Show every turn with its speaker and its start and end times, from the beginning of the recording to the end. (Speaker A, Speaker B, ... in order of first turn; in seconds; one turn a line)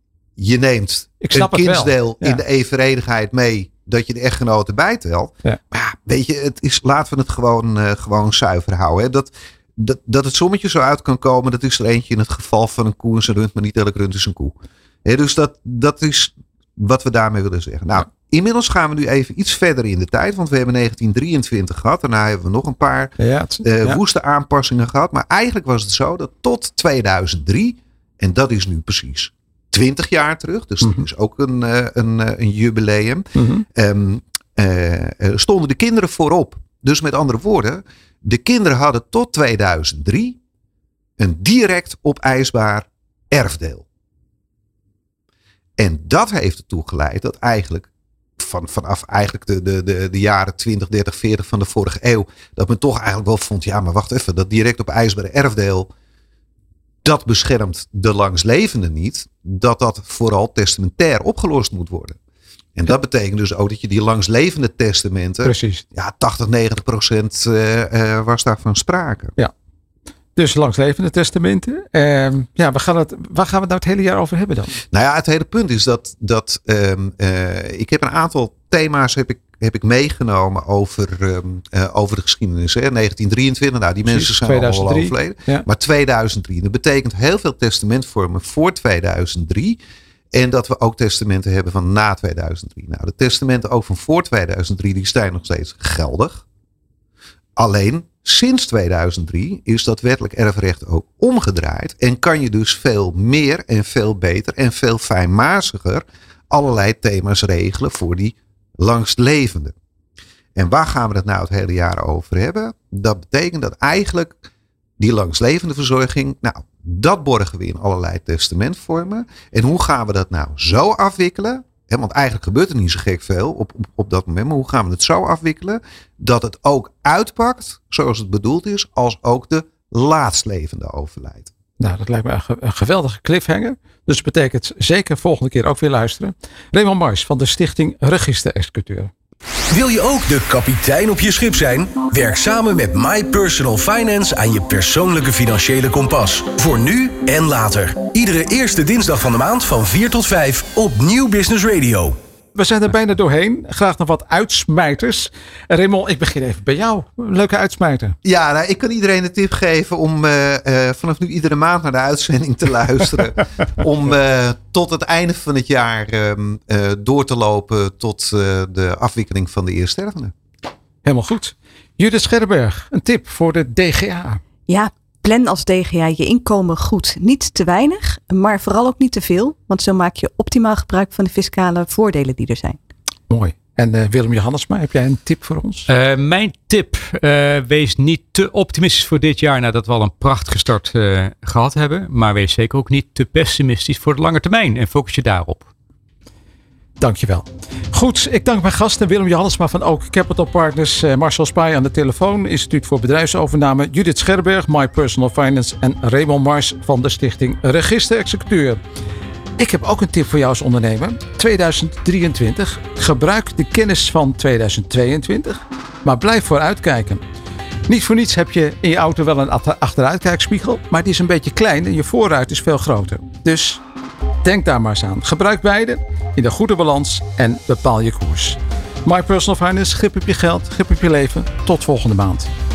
Speaker A: 0.4-40.4
Speaker B: 1.2-2.4
Speaker B: 23.2-24.0
Speaker B: 33.4-33.6
Speaker A: 41.2-43.8
Speaker A: 45.8-55.9
Speaker A: 57.0-62.2
Speaker A: 62.8-69.3
Speaker B: 65.4-65.8
Speaker B: 70.3-74.8
Speaker A: 74.9-89.8
Speaker B: 84.0-85.7
Speaker A: 90.3-96.4
Speaker A: 97.6-109.7
Speaker A: 110.5-114.4
Speaker A: 115.0-131.5
Speaker B: 131.8-139.1
Speaker C: 139.7-152.2
Speaker B: 152.5-158.2
Speaker A: 158.2-170.3
Speaker B: 171.0-174.4
Speaker D: 174.7-182.8
Speaker B: 183.3-185.9
Speaker E: 185.9-195.7
Speaker B: 197.0-208.8
Speaker B: 209.6-217.2
Speaker B: 217.9-223.8
Speaker B: 224.4-232.5